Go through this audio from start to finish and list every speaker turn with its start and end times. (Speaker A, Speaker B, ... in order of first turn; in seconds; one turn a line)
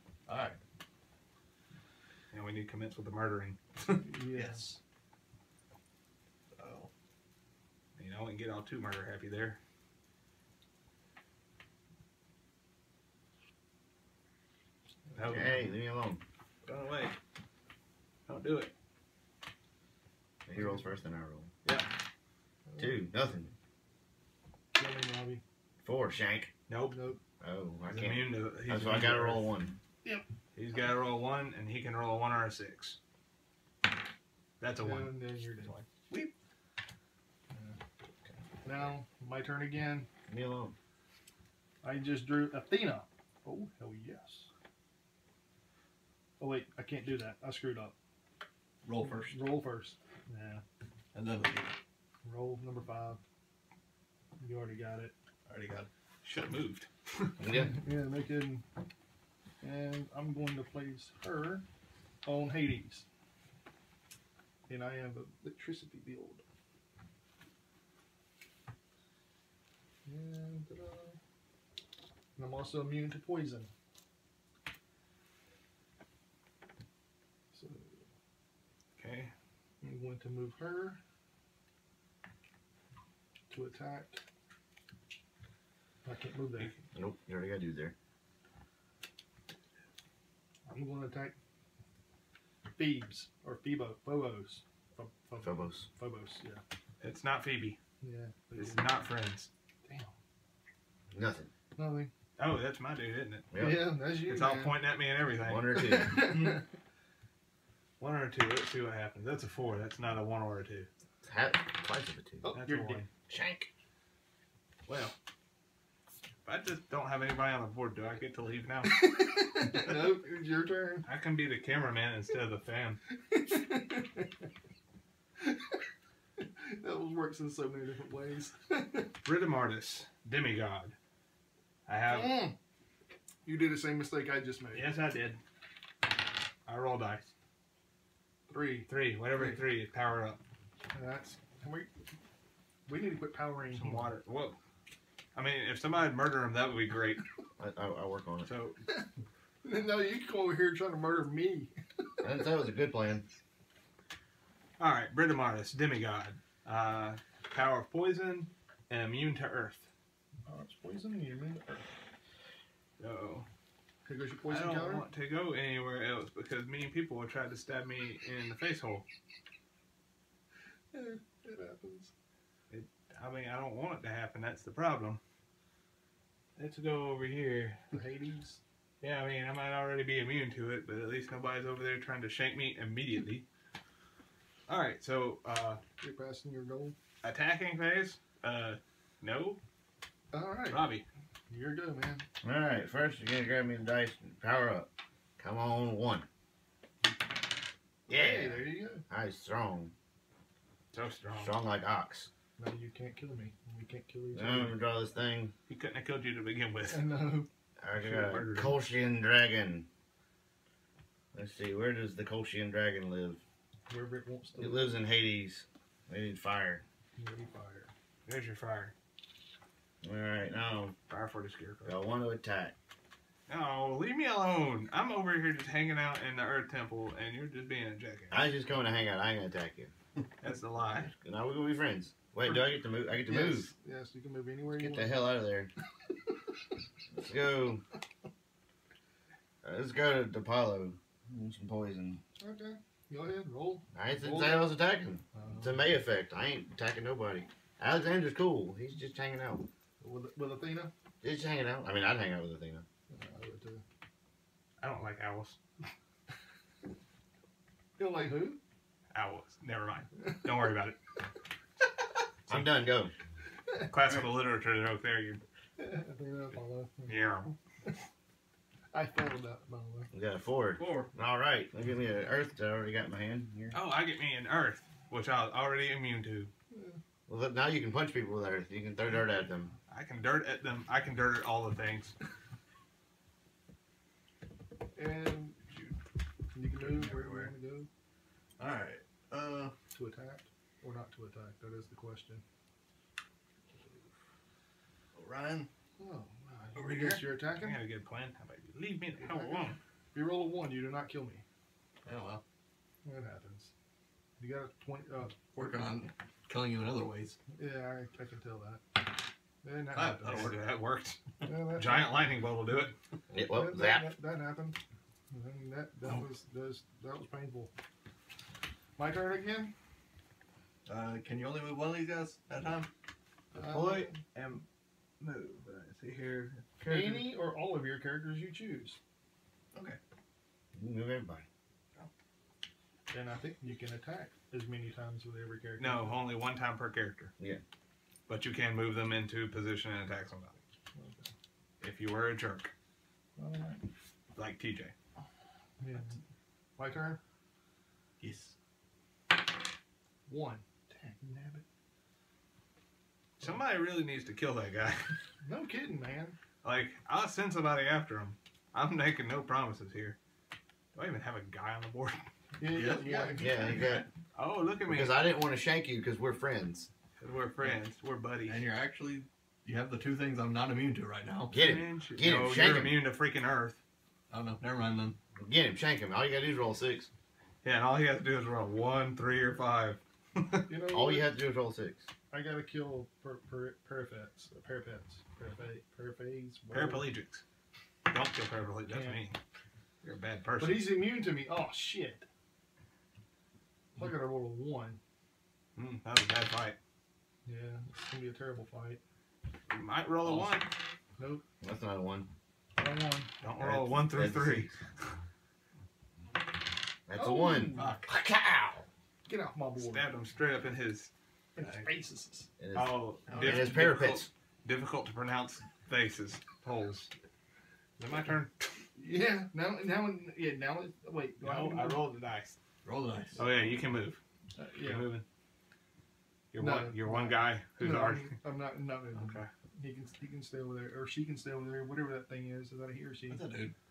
Speaker A: 0.3-0.6
Speaker B: 2.3-4.1
Speaker C: 4.0-4.8
Speaker A: 4.3-4.8
Speaker A: 6.6-6.9
Speaker B: 8.0-9.6
Speaker B: 15.2-15.6
Speaker D: 15.3-16.2
Speaker B: 16.7-17.2
Speaker B: 18.3-18.7
Speaker D: 20.5-21.5
Speaker B: 21.6-21.9
Speaker C: 22.7-23.0
Speaker D: 22.8-23.5
Speaker C: 24.7-25.4
Speaker D: 25.8-26.5
Speaker B: 26.7-27.0
Speaker C: 26.9-27.2
Speaker D: 27.4-29.7
Speaker B: 27.9-29.5
Speaker B: 30.6-33.0
Speaker B: 34.6-35.9
Speaker C: 34.8-35.7
Speaker C: 37.5-37.8
Speaker C: 38.6-40.1
Speaker D: 40.3-40.8
Speaker C: 41.8-44.5
Speaker C: 46.4-48.0
Speaker A: 48.8-49.4
Speaker C: 49.3-50.6
Speaker A: 51.1-51.7
Speaker C: 52.2-53.2
Speaker C: 54.4-55.1
Speaker A: 55.5-55.9
Speaker B: 56.2-57.3
Speaker D: 57.4-57.8
Speaker C: 57.5-58.6
Speaker C: 59.6-61.6
Speaker C: 62.2-63.0
Speaker C: 64.7-66.4
Speaker C: 70.1-71.2
Speaker C: 72.4-73.7
Speaker C: 77.5-78.0
Speaker B: 79.0-79.3
Speaker C: 79.8-81.0
Speaker C: 83.5-84.2
Speaker C: 86.0-86.7
Speaker D: 87.0-87.9
Speaker C: 90.7-91.4
Speaker C: 92.8-96.6
Speaker D: 95.4-95.9
Speaker B: 97.0-97.8
Speaker C: 98.0-98.9
Speaker B: 98.6-99.5
Speaker C: 99.9-100.1
Speaker D: 101.1-101.5
Speaker C: 101.8-102.1
Speaker B: 102.4-103.5
Speaker D: 103.5-103.9
Speaker C: 103.6-104.8
Speaker B: 104.2-106.6
Speaker D: 105.4-106.3
Speaker C: 105.8-106.6
Speaker B: 108.0-110.9
Speaker D: 111.2-112.5
Speaker C: 112.4-113.0
Speaker B: 112.5-113.1
Speaker D: 113.3-113.7
Speaker B: 114.9-115.2
Speaker B: 116.5-118.9
Speaker C: 118.9-121.1
Speaker B: 121.1-123.0
Speaker C: 123.3-124.3
Speaker C: 125.4-125.8
Speaker C: 126.4-129.1
Speaker B: 129.2-130.9
Speaker B: 131.9-132.5
Speaker C: 132.1-132.6
Speaker C: 133.4-135.0
Speaker B: 134.7-135.4
Speaker B: 136.7-137.3
Speaker C: 138.5-138.9
Speaker B: 138.9-140.4
Speaker C: 140.9-141.9
Speaker C: 142.9-144.1
Speaker B: 143.7-144.6
Speaker B: 145.3-147.2
Speaker D: 147.6-148.5
Speaker B: 148.4-148.8
Speaker C: 149.6-151.7
Speaker D: 152.2-153.3
Speaker B: 154.8-159.9
Speaker C: 160.5-161.9
Speaker B: 163.0-163.5
Speaker C: 164.1-165.1
Speaker B: 164.5-169.1
Speaker C: 170.9-172.1
Speaker B: 172.7-175.2
Speaker B: 176.6-177.9
Speaker C: 177.9-178.6
Speaker B: 179.0-183.4
Speaker B: 184.7-185.8
Speaker C: 186.0-186.9
Speaker B: 187.2-189.6
Speaker C: 190.3-190.8
Speaker B: 190.7-191.0
Speaker C: 191.5-192.2
Speaker D: 192.4-196.3
Speaker D: 198.1-199.9
Speaker C: 198.1-199.0
Speaker B: 200.9-201.6
Speaker D: 201.3-202.3
Speaker C: 202.6-204.8
Speaker D: 204.3-205.5
Speaker B: 205.7-207.0
Speaker C: 206.9-207.5
Speaker D: 207.8-209.9
Speaker B: 207.9-208.8
Speaker D: 211.3-213.4
Speaker C: 213.9-215.0
Speaker D: 214.6-216.8
Speaker C: 217.2-217.9
Speaker B: 218.3-218.9
Speaker D: 220.0-220.9
Speaker B: 221.1-221.9
Speaker D: 221.8-222.7
Speaker B: 223.5-228.4
Speaker D: 228.3-229.9
Speaker B: 230.4-231.1
Speaker D: 231.1-233.7
Speaker C: 232.4-235.2
Speaker D: 234.7-235.7
Speaker D: 237.1-237.8
Speaker D: 239.6-242.2
Speaker C: 242.4-243.9
Speaker D: 243.9-249.7
Speaker B: 244.2-244.7
Speaker C: 245.3-245.8
Speaker C: 250.0-250.9
Speaker D: 251.2-252.8
Speaker C: 253.1-253.8
Speaker B: 254.8-255.6
Speaker C: 258.0-258.6
Speaker B: 259.1-261.0
Speaker D: 262.5-263.1
Speaker B: 263.9-265.4
Speaker A: 264.0-264.3
Speaker C: 265.8-267.3
Speaker B: 267.1-267.6
Speaker C: 268.9-270.1
Speaker D: 270.1-273.8
Speaker A: 270.8-271.1
Speaker B: 273.7-276.5
Speaker C: 276.7-277.0
Speaker D: 277.3-279.7
Speaker B: 279.9-282.1
Speaker C: 284.9-285.6
Speaker C: 286.5-287.9
Speaker A: 286.7-287.5
Speaker A: 288.6-289.8
Speaker C: 289.9-292.4
Speaker A: 295.1-295.7
Speaker C: 296.0-297.8
Speaker A: 296.8-297.2
Speaker B: 297.6-299.8
Speaker C: 299.2-301.4
Speaker A: 302.1-302.4
Speaker C: 303.1-303.7
Speaker C: 304.4-305.3
Speaker A: 305.5-307.4
Speaker C: 307.6-308.8
Speaker C: 309.6-310.5
Speaker A: 309.9-310.6
Speaker B: 310.2-311.2
Speaker C: 311.4-312.3
Speaker B: 311.7-312.9
Speaker D: 313.3-314.1
Speaker C: 313.5-314.8
Speaker C: 315.3-317.7
Speaker C: 319.0-319.7
Speaker A: 320.9-322.9
Speaker C: 323.5-324.2
Speaker B: 323.6-324.6
Speaker B: 325.2-326.7
Speaker D: 326.8-327.3
Speaker C: 326.9-329.0
Speaker A: 329.7-330.0
Speaker D: 330.8-331.5
Speaker C: 333.1-336.2
Speaker B: 335.8-337.3
Speaker B: 338.3-340.6
Speaker C: 340.9-341.3
Speaker B: 341.8-342.7
Speaker C: 343.4-343.8
Speaker B: 344.4-344.9
Speaker C: 345.8-346.2
Speaker C: 346.8-347.2
Speaker A: 348.2-348.5
Speaker C: 350.3-351.6
Speaker B: 353.4-355.2
Speaker C: 355.4-356.4
Speaker B: 356.6-360.2
Speaker B: 360.9-362.2
Speaker C: 362.6-363.7
Speaker A: 362.7-364.1
Speaker D: 363.4-364.1
Speaker B: 364.4-365.2
Speaker D: 364.9-366.9
Speaker B: 367.2-368.6
Speaker A: 368.4-371.6
Speaker D: 371.5-372.9
Speaker B: 371.5-373.8
Speaker A: 374.3-375.2
Speaker D: 375.4-377.1
Speaker B: 377.6-380.7
Speaker C: 380.7-381.3
Speaker D: 380.9-382.1
Speaker C: 382.3-387.1
Speaker B: 386.7-387.4
Speaker B: 388.1-389.4
Speaker C: 388.9-389.2
Speaker B: 390.0-390.9
Speaker C: 390.6-392.3
Speaker C: 394.0-395.0
Speaker B: 395.8-396.8
Speaker C: 397.5-399.0
Speaker B: 399.7-400.7
Speaker A: 400.2-400.6
Speaker C: 401.2-401.4
Speaker D: 401.6-402.3
Speaker C: 402.8-403.3
Speaker B: 403.4-404.7
Speaker D: 403.6-404.7
Speaker D: 407.1-408.9
Speaker C: 407.1-408.0
Speaker A: 407.8-408.1
Speaker C: 409.3-410.1
Speaker B: 409.8-411.1
Speaker C: 411.6-412.5
Speaker D: 412.6-414.3
Speaker B: 412.8-417.1
Speaker A: 413.3-414.1
Speaker B: 418.0-418.8
Speaker C: 419.0-422.0
Speaker B: 421.4-422.6
Speaker A: 422.9-423.5
Speaker B: 423.4-424.2
Speaker C: 424.6-425.1
Speaker B: 424.8-425.2
Speaker B: 426.5-428.4
Speaker C: 426.6-433.4
Speaker B: 429.1-429.5
Speaker A: 433.3-433.7